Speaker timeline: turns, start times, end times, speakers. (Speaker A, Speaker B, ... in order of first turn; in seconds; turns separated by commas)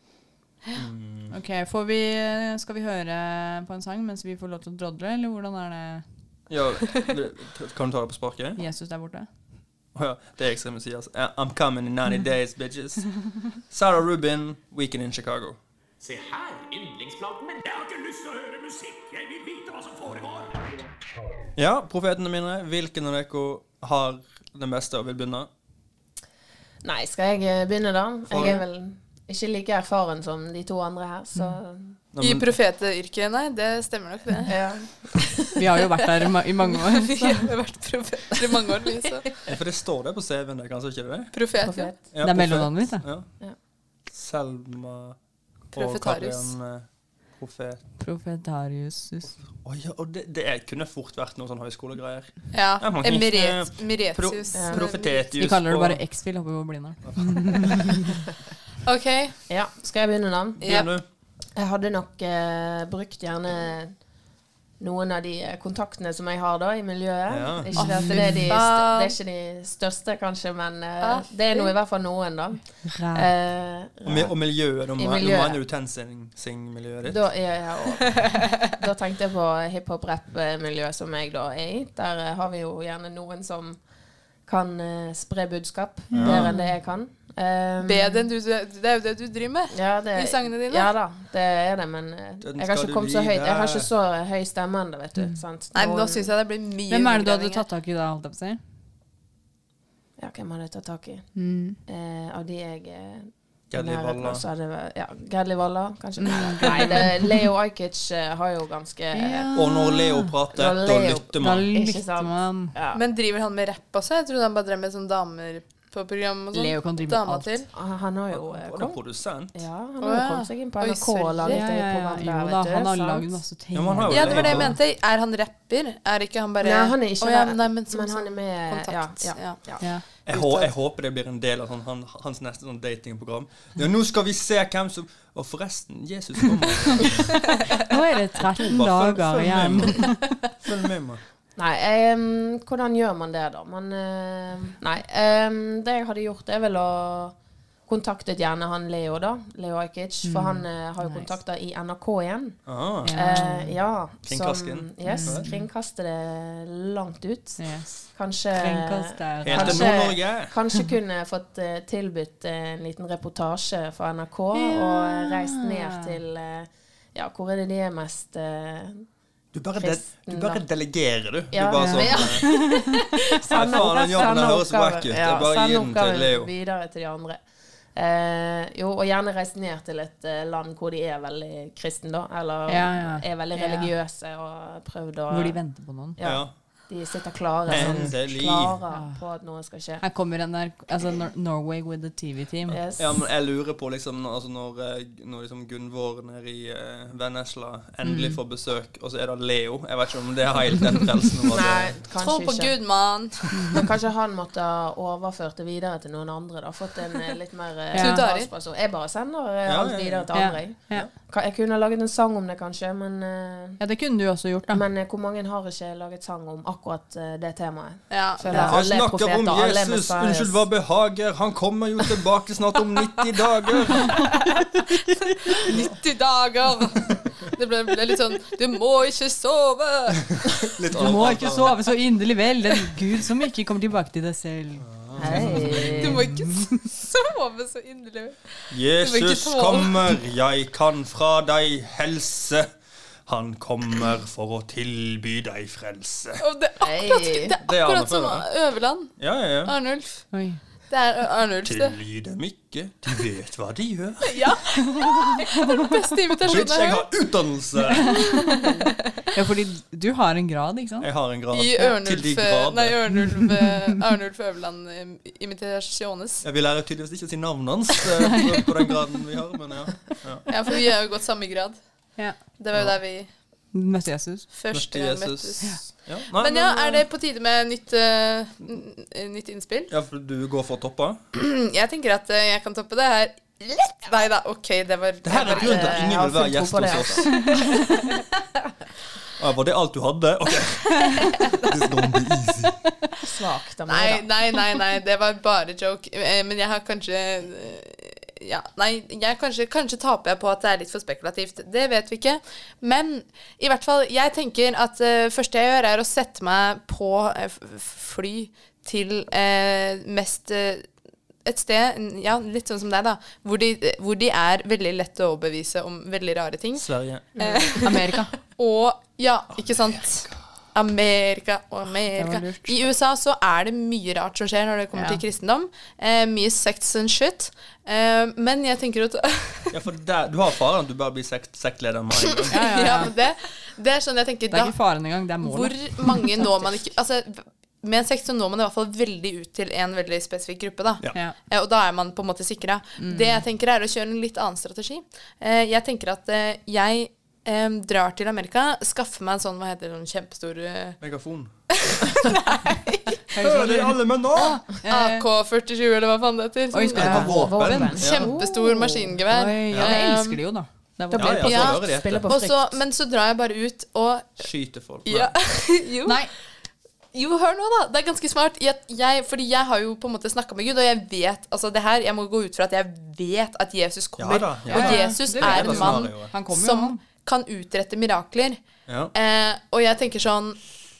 Speaker A: 0.8-1.3, Speaker B: 1.3-6.0, Speaker A: 6.5-8.6, Speaker B: 8.6-9.3, Speaker A: 9.9-15.6, Speaker C: 16.0-20.7, Speaker A: 21.6-25.5, Speaker D: 26.8-32.0, Speaker A: 28.3-28.6, Speaker A: 32.1-32.5, Speaker E: 32.2-34.5, Speaker D: 34.5-35.5, Speaker B: 35.6-37.5, Speaker E: 36.7-39.3, Speaker A: 39.5-41.3, Speaker E: 41.3-41.9, Speaker D: 41.6-42.0, Speaker A: 42.1-43.3, Speaker B: 42.2-43.0, Speaker A: 44.1-45.2, Speaker E: 45.7-46.5, Speaker A: 45.7-47.8, Speaker B: 48.0-49.3, Speaker A: 49.2-56.0, Speaker E: 52.5-55.3, Speaker D: 54.5-54.9, Speaker B: 55.4-58.0, Speaker A: 57.0-58.0, Speaker E: 58.8-59.4, Speaker D: 59.5-60.7, Speaker A: 60.6-61.0, Speaker E: 60.6-60.9, Speaker D: 61.5-64.0, Speaker D: 64.8-75.6, Speaker A: 67.3-67.8, Speaker B: 67.8-68.5, Speaker E: 67.8-69.2, Speaker E: 71.0-71.7, Speaker B: 72.9-73.3, Speaker A: 74.0-77.3, Speaker D: 77.0-83.8, Speaker D: 84.5-88.2, Speaker B: 86.1-86.8, Speaker A: 86.1-86.5, Speaker E: 87.8-90.9, Speaker D: 89.7-96.3, Speaker A: 92.4-93.9, Speaker E: 95.7-97.7, Speaker B: 96.9-98.6, Speaker D: 100.2-109.5, Speaker B: 101.3-101.8, Speaker A: 103.7-104.4, Speaker B: 106.2-107.5, Speaker B: 109.1-110.3, Speaker A: 109.5-111.7, Speaker D: 110.5-113.0, Speaker B: 111.4-112.7, Speaker E: 112.9-117.7, Speaker B: 116.5-117.7, Speaker D: 117.7-119.0, Speaker A: 118.3-119.6, Speaker D: 119.5-123.4, Speaker E: 120.0-121.6, Speaker B: 121.5-124.8, Speaker A: 123.7-124.7, Speaker E: 124.1-130.7, Speaker D: 124.3-124.6, Speaker D: 126.6-129.9, Speaker A: 130.3-137.8, Speaker B: 137.7-140.3, Speaker A: 138.4-141.2, Speaker D: 141.6-169.1, Speaker B: 150.2-151.4, Speaker A: 152.7-153.2, Speaker B: 153.0-153.8, Speaker A: 154.3-155.5, Speaker B: 155.0-155.7, Speaker B: 157.6-160.2, Speaker A: 159.4-160.5, Speaker B: 164.5-166.2, Speaker A: 169.5-172.5, Speaker D: 169.8-170.7, Speaker D: 171.5-177.4, Speaker B: 171.8-172.8, Speaker A: 173.5-176.5, Speaker D: 177.9-185.6, Speaker B: 182.7-183.9, Speaker B: 185.3-186.2, Speaker D: 186.2-190.0, Speaker A: 186.2-186.5, Speaker B: 187.7-188.2, Speaker A: 187.7-188.8, Speaker B: 188.9-189.2, Speaker B: 190.0-192.8, Speaker D: 192.7-193.2, Speaker A: 193.0-202.0, Speaker B: 198.0-198.4, Speaker D: 201.5-202.8, Speaker E: 202.2-203.6, Speaker B: 203.5-203.8, Speaker D: 203.7-213.8, Speaker B: 207.9-208.2, Speaker E: 208.0-208.5, Speaker A: 209.7-211.1, Speaker B: 210.3-211.1, Speaker B: 213.8-214.8, Speaker D: 214.7-220.7, Speaker E: 218.1-218.5, Speaker B: 218.5-218.8, Speaker A: 218.5-224.3, Speaker E: 225.5-230.2, Speaker A: 230.3-231.8, Speaker B: 230.9-236.7, Speaker A: 234.8-236.2, Speaker D: 235.2-236.2, Speaker E: 235.8-240.2, Speaker A: 238.7-242.7, Speaker A: 243.3-246.4, Speaker E: 246.4-250.2, Speaker D: 246.8-247.6, Speaker A: 247.7-248.5, Speaker A: 249.2-249.8, Speaker B: 250.3-250.6, Speaker E: 250.9-252.0, Speaker A: 251.7-254.4, Speaker E: 254.2-257.1, Speaker A: 256.4-258.2, Speaker B: 258.0-258.7, Speaker B: 259.3-261.1, Speaker A: 261.0-263.0, Speaker E: 261.5-266.4, Speaker A: 266.4-270.5, Speaker E: 270.5-271.8, Speaker E: 272.6-273.3, Speaker B: 273.7-274.5, Speaker E: 274.5-279.9, Speaker A: 274.7-277.1, Speaker A: 279.9-281.2, Speaker E: 281.3-286.1, Speaker A: 285.2-287.4, Speaker D: 285.5-287.6, Speaker A: 289.4-292.8, Speaker D: 293.2-294.3, Speaker E: 293.9-310.9, Speaker E: 311.4-329.7, Speaker A: 316.8-317.3, Speaker D: 317.4-317.8, Speaker B: 317.8-318.3, Speaker A: 319.7-320.4, Speaker B: 322.1-322.8, Speaker B: 324.9-325.2, Speaker A: 329.7-332.5, Speaker E: 332.3-334.8, Speaker B: 332.5-333.1, Speaker B: 334.5-336.4, Speaker E: 335.4-351.0, Speaker B: 343.0-343.4, Speaker A: 351.0-351.5, Speaker E: 351.8-353.2, Speaker B: 353.3-355.3, Speaker A: 353.4-354.6, Speaker E: 354.8-360.4, Speaker B: 356.7-357.9, Speaker A: 356.9-358.3, Speaker D: 356.9-359.2, Speaker B: 359.3-361.7, Speaker D: 361.1-362.8, Speaker A: 361.1-362.3, Speaker E: 361.4-364.4, Speaker A: 364.4-365.3, Speaker E: 365.1-366.2, Speaker B: 366.1-366.3, Speaker E: 367.1-378.6, Speaker A: 374.2-376.3, Speaker B: 374.7-377.0, Speaker E: 379.1-380.6